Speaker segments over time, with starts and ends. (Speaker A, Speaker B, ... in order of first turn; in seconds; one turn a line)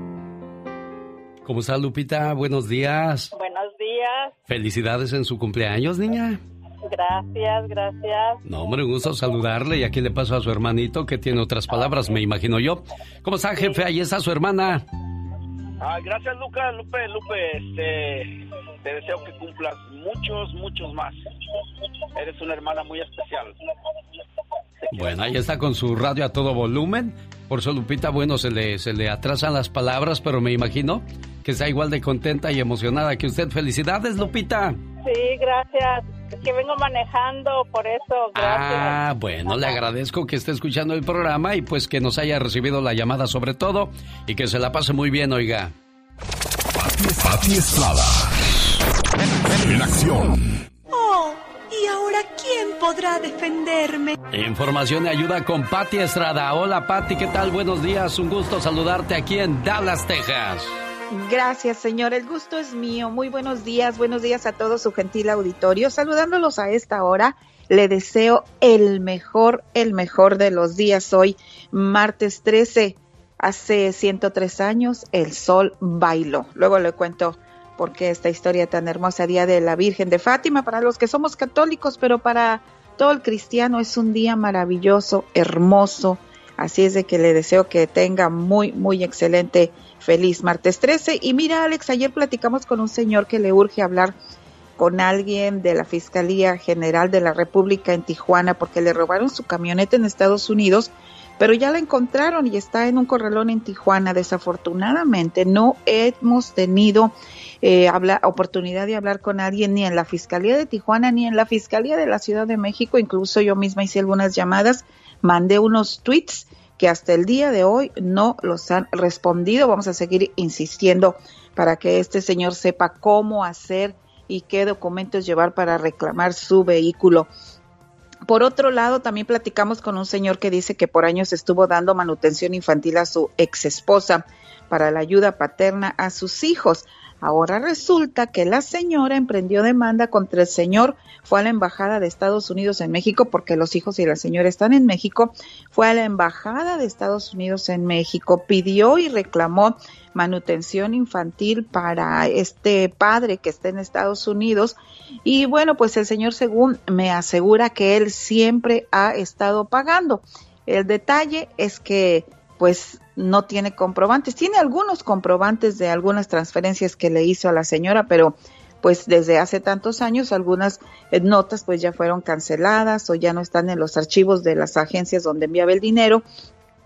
Speaker A: 1.4-3.3
Speaker B: 3.3-4.3
Speaker A: 4.5-6.4
Speaker B: 6.9-8.4
Speaker A: 8.4-14.8
Speaker C: 15.8-21.2
Speaker C: 22.1-23.6
Speaker A: 24.9-34.8
Speaker B: 35.0-39.0
Speaker A: 38.3-45.7
Speaker D: 46.8-48.5
Speaker D: 49.5-50.6
Speaker E: 50.9-54.2
Speaker A: 54.3-60.7
Speaker F: 61.1-94.2
Speaker F: 94.8-127.3
Speaker F: 128.3-176.2